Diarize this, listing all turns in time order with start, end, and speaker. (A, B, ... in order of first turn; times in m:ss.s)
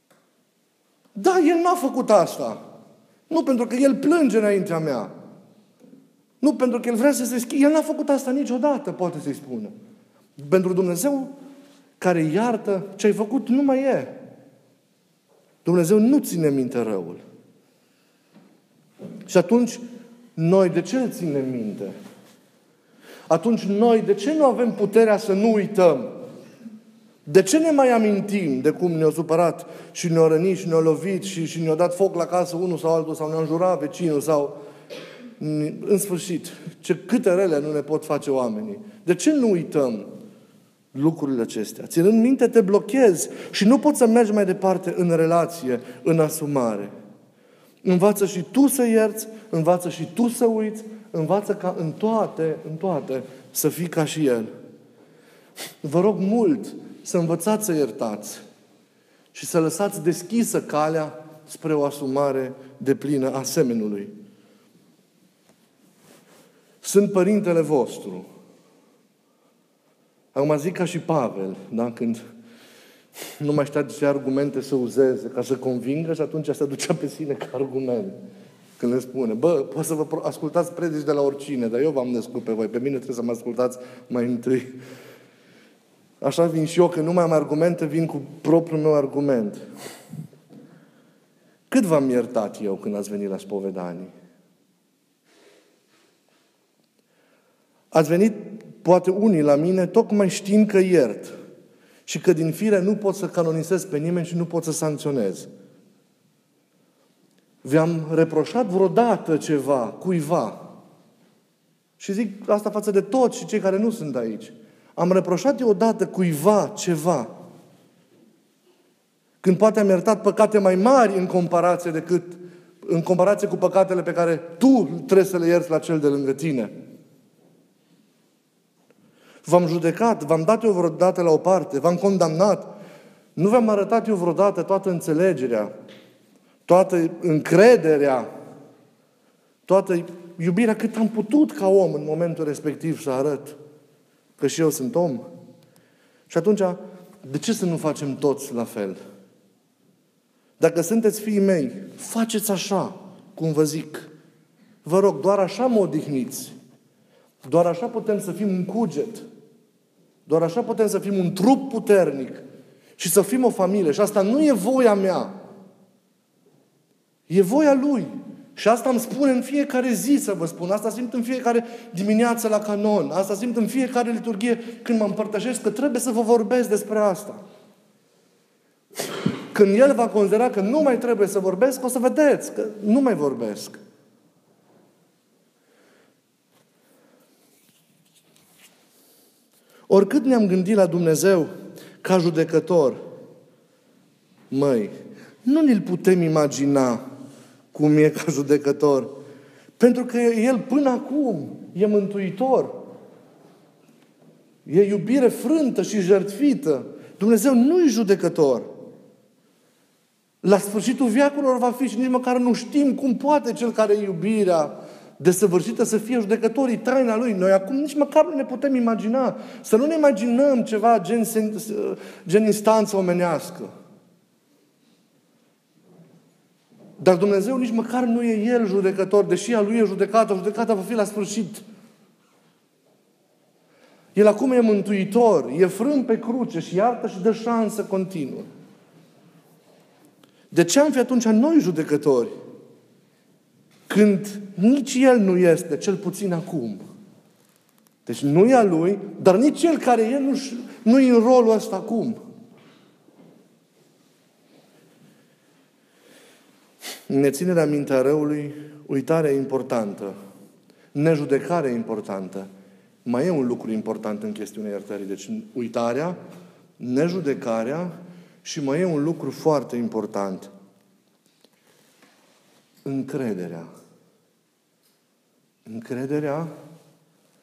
0:01.2-0:02.6 A
0:03.3-0:05.1 A
0:06.4-0:09.7 A
0:10.4-0:11.3 A
0:12.0-0:14.2 A
0:15.6-0:17.2 A
0:19.2-0:19.8 A
0:20.4-0:21.9 A
0:23.3-0:26.2 A
0:27.2-0:34.6 A
0:35.4-0:40.1 A
0:40.9-0:46.9 A
0:47.8-0:54.5 A
0:55.8-0:58.4 A
0:59.3-1:04.1 A
1:06.8-1:08.2 A
1:10.3-1:12.2 A
1:13.4-1:18.2 A
1:18.8-1:24.8 A
1:26.2-1:29.6 A
1:31.7-1:34.1 A
1:37.9-1:41.3 A
1:42.0-1:45.5 A
1:47.6-1:50.7 A
1:52.0-1:57.3 A
1:59.4-2:06.7 A
2:09.4-2:12.7 A
2:13.4-2:15.7 A
2:16.7-2:18.3 A
2:19.7-2:23.6 A
2:24.4-2:25.2 A
2:26.3-2:29.0 A
2:30.6-2:34.1 A
2:34.8-2:36.5 A
2:37.4-2:39.2 A
2:40.2-2:42.4 A
2:43.0-2:45.3 A
2:47.3-2:57.4 A
2:59.5-3:03.8 A
3:09.9-3:13.0 A
3:14.5-3:14.9 A
3:15.4-3:17.0 A
3:17.7-3:19.2 A
3:19.8-3:22.9 A
3:24.6-3:28.7 A
3:30.4-3:43.7 A
3:47.0-3:51.6 A
3:54.1-3:58.5 A
4:00.5-4:02.3 A
4:03.9-4:06.8 A
4:08.0-4:12.2 A
4:17.1-4:20.1 A
4:20.9-4:22.5 A
4:23.0-4:26.2 A
4:26.8-4:27.9 A
4:28.4-4:30.5 A
4:32.8-4:33.7 A
4:35.6-4:36.5 A